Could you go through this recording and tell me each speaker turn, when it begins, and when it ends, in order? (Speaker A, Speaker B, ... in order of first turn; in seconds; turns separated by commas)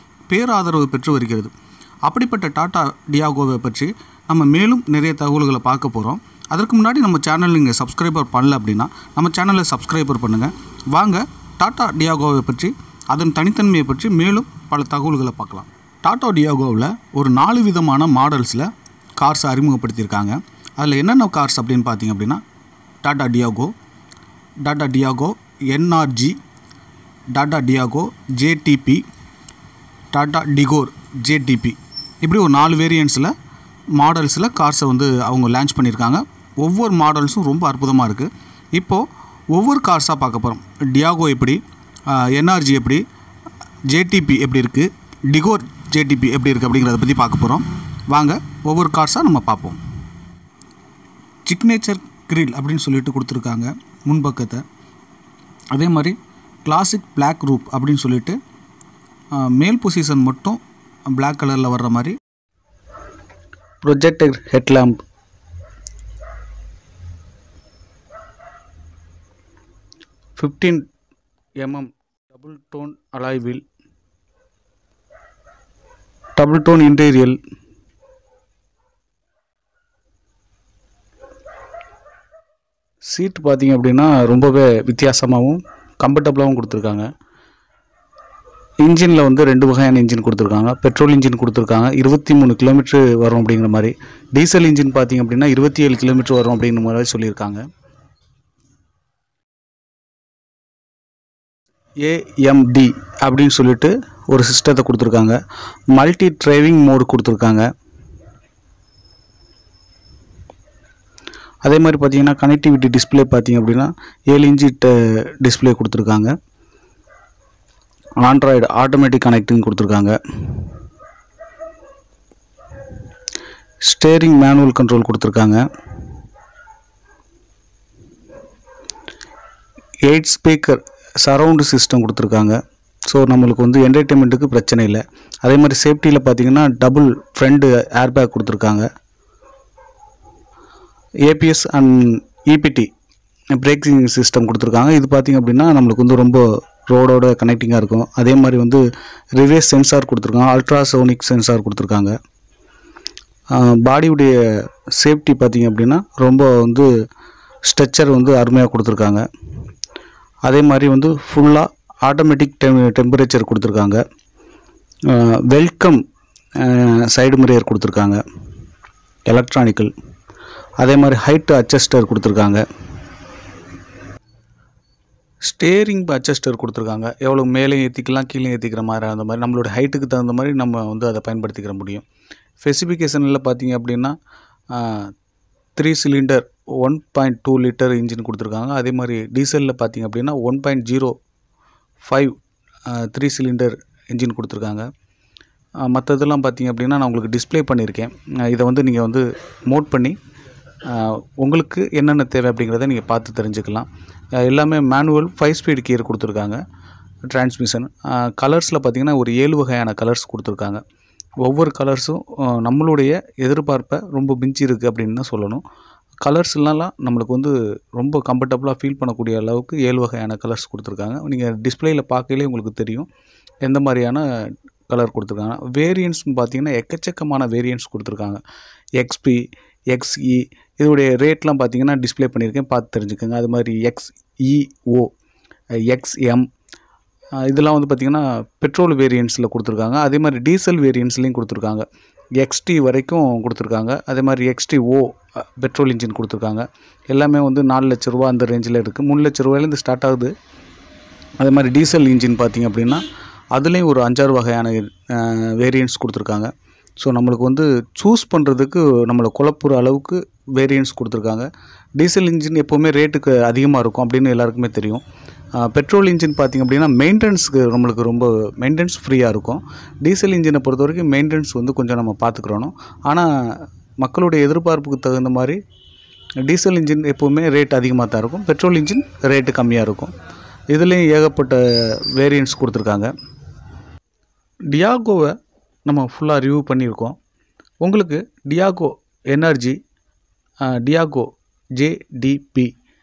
Speaker A: 0.3-1.5, Speaker A: 2.0-22.4, Speaker A: 23.0-23.7, Speaker A: 24.6-26.4, Speaker A: 27.3-29.1, Speaker A: 30.1-33.3, Speaker A: 33.9-43.0, Speaker A: 43.9-49.8, Speaker A: 51.5-54.6, Speaker A: 55.7-58.4, Speaker A: 59.3-62.2, Speaker A: 63.8-65.0, Speaker A: 70.4-70.8, Speaker A: 71.6-73.6, Speaker A: 76.3-77.4, Speaker A: 83.1-87.1, Speaker A: 88.8-97.6, Speaker A: 102.0-105.4, Speaker A: 105.9-107.7, Speaker A: 111.6-116.3, Speaker A: 118.2-120.7, Speaker A: 123.8-125.6, Speaker A: 130.1-138.9, Speaker A: 141.2-142.9, Speaker A: 143.5-148.8, Speaker A: 149.3-152.1, Speaker A: 153.5-154.3, Speaker A: 154.9-156.9, Speaker A: 157.7-159.2, Speaker A: 160.4-164.0, Speaker A: 165.1-166.0, Speaker A: 166.6-168.2, Speaker A: 169.3-169.9, Speaker A: 170.8-172.6, Speaker A: 175.4-182.0, Speaker A: 182.6-184.2, Speaker A: 184.7-185.1, Speaker A: 185.8-191.1, Speaker A: 192.0-192.3, Speaker A: 192.9-194.8, Speaker A: 195.8-200.2, Speaker A: 200.8-203.9, Speaker A: 204.4-206.6, Speaker A: 207.3-210.8, Speaker A: 211.4-215.6, Speaker A: 216.2-223.1, Speaker A: 223.6-224.2, Speaker A: 224.9-228.4, Speaker A: 229.0-235.1, Speaker A: 235.9-236.4, Speaker A: 237.4-241.8, Speaker A: 242.4-250.3, Speaker A: 251.4-261.5, Speaker A: 262.0-265.0, Speaker A: 265.6-275.6, Speaker A: 276.4-280.1, Speaker A: 280.7-283.1, Speaker A: 284.7-287.2, Speaker A: 287.8-289.8, Speaker A: 290.6-292.7